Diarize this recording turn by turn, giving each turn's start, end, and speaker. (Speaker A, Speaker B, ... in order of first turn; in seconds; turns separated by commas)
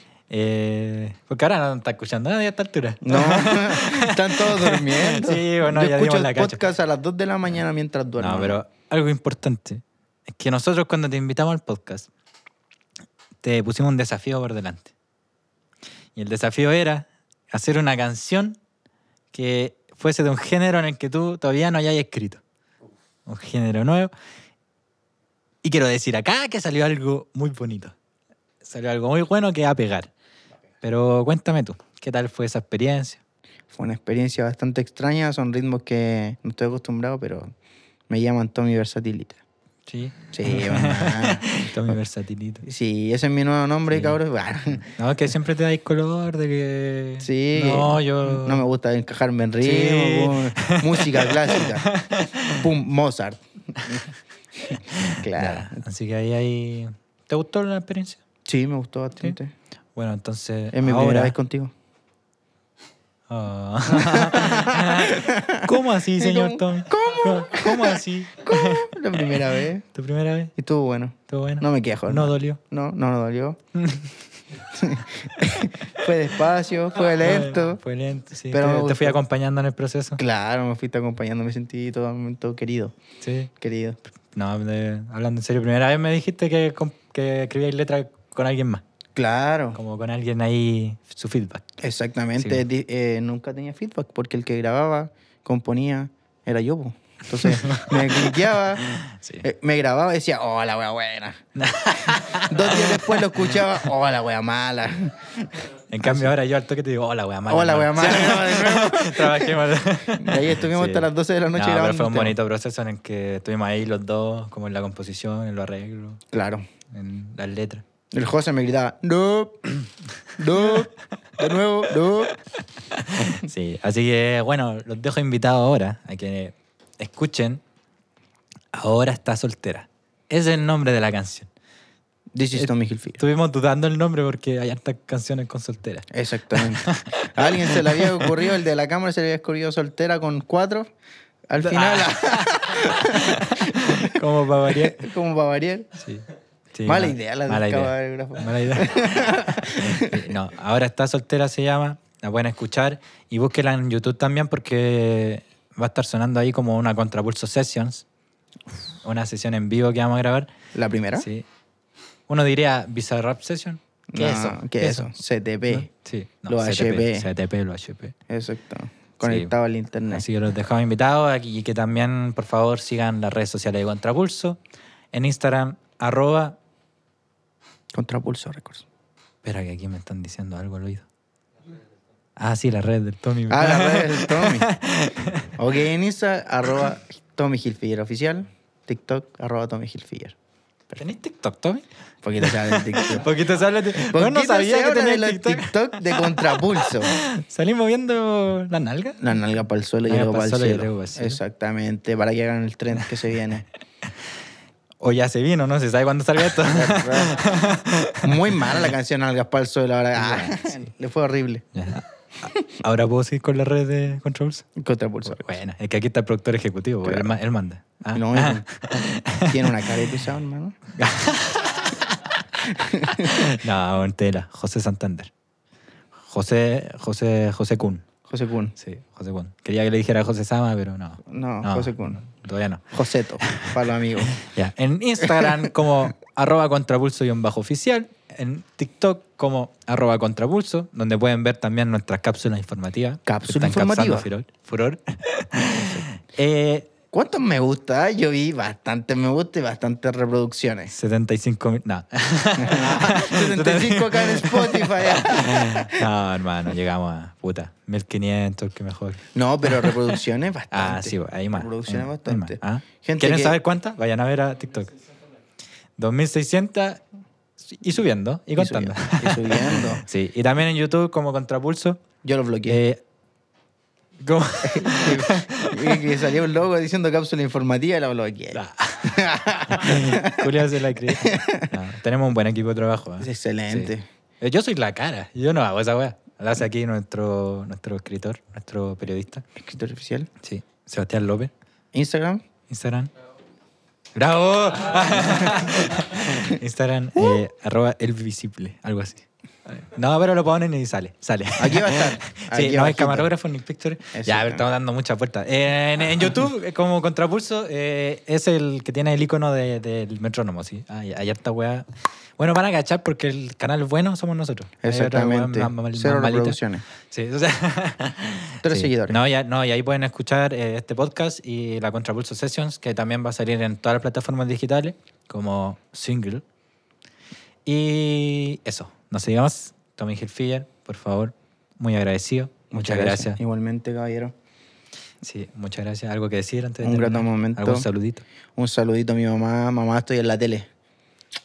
Speaker A: 0.3-6.6, Speaker B: 3.0-8.6, Speaker A: 8.2-12.1, Speaker A: 13.4-14.9, Speaker A: 16.1-18.6, Speaker A: 19.3-22.4, Speaker A: 23.2-24.1, Speaker A: 25.6-27.9, Speaker A: 28.6-30.1, Speaker A: 30.8-33.2, Speaker B: 33.7-37.5, Speaker B: 38.1-39.4, Speaker A: 39.9-42.6, Speaker B: 40.3-41.8, Speaker B: 42.6-44.9, Speaker A: 43.9-44.2, Speaker A: 45.0-48.6, Speaker B: 47.2-51.9, Speaker A: 49.6-52.6, Speaker B: 52.5-54.0, Speaker A: 54.7-58.2, Speaker B: 54.7-55.8, Speaker B: 58.5-59.5, Speaker A: 59.9-61.4, Speaker B: 60.7-61.7, Speaker A: 63.3-70.5, Speaker B: 63.9-69.8, Speaker B: 70.5-73.6, Speaker A: 71.3-72.6, Speaker A: 73.8-74.2, Speaker B: 74.7-77.8, Speaker A: 77.1-80.2, Speaker B: 78.5-79.2, Speaker B: 80.2-82.9, Speaker A: 83.2-83.5, Speaker B: 83.6-84.0, Speaker A: 84.3-88.8, Speaker B: 89.1-89.8, Speaker A: 89.7-91.6, Speaker B: 91.8-101.4, Speaker A: 92.4-92.6, Speaker A: 97.4-99.5, Speaker A: 101.5-103.3, Speaker B: 102.0-106.3, Speaker A: 105.9-116.2, Speaker B: 107.5-112.3, Speaker B: 116.3-116.6, Speaker A: 116.9-117.8, Speaker B: 118.1-119.7, Speaker B: 120.4-122.4, Speaker A: 120.5-120.8, Speaker A: 122.9-127.6, Speaker A: 128.7-131.5, Speaker B: 132.3-133.2, Speaker A: 132.5-138.3, Speaker B: 136.1-140.9, Speaker B: 141.5-145.9, Speaker A: 141.6-145.0, Speaker A: 146.0-158.0, Speaker B: 146.8-150.3, Speaker A: 159.0-160.5, Speaker B: 160.7-161.3, Speaker A: 161.2-161.4, Speaker A: 162.3-165.1, Speaker B: 164.1-165.9, Speaker A: 165.7-168.2, Speaker B: 166.5-167.3, Speaker B: 168.3-170.2, Speaker A: 169.2-169.5, Speaker A: 170.1-174.6, Speaker A: 175.1-176.6, Speaker B: 177.9-178.8, Speaker A: 179.4-181.1, Speaker A: 182.4-185.5, Speaker B: 183.5-184.7, Speaker B: 185.6-190.3, Speaker A: 190.9-191.9, Speaker B: 192.2-193.3, Speaker A: 192.4-199.2, Speaker B: 193.9-197.1, Speaker B: 199.2-203.7, Speaker A: 200.0-201.4, Speaker A: 205.0-208.7, Speaker B: 206.6-207.5, Speaker B: 208.2-211.7, Speaker A: 210.2-210.8, Speaker A: 211.7-214.7, Speaker B: 214.8-215.6, Speaker A: 215.2-219.8, Speaker B: 217.0-217.3, Speaker B: 218.1-218.6, Speaker B: 219.3-220.8, Speaker A: 220.9-225.3, Speaker B: 222.7-223.4, Speaker A: 226.3-228.0, Speaker B: 228.2-228.7, Speaker A: 228.8-232.9, Speaker B: 231.3-232.2, Speaker B: 232.9-234.3, Speaker A: 233.4-246.9, Speaker B: 235.2-235.7, Speaker B: 243.3-244.3, Speaker B: 247.1-250.9, Speaker A: 250.9-260.2, Speaker B: 252.6-256.0, Speaker B: 259.3-263.6, Speaker A: 260.7-264.9, Speaker A: 266.0-267.0, Speaker A: 267.6-272.0, Speaker B: 268.6-270.0, Speaker B: 272.2-272.8, Speaker A: 272.6-273.0, Speaker A: 274.2-276.1, Speaker B: 274.6-280.6, Speaker A: 278.5-289.4, Speaker B: 281.1-281.7, Speaker B: 283.2-284.0, Speaker B: 289.6-290.3, Speaker A: 290.4-291.5, Speaker B: 291.9-292.4, Speaker A: 292.7-293.1, Speaker A: 294.1-311.9, Speaker B: 301.6-303.3, Speaker B: 304.1-304.6, Speaker A: 312.4-326.4, Speaker B: 314.8-316.8, Speaker B: 318.6-319.2, Speaker A: 327.6-333.4, Speaker B: 332.7-334.3, Speaker A: 335.2-338.2, Speaker B: 336.8-337.9, Speaker B: 338.6-340.7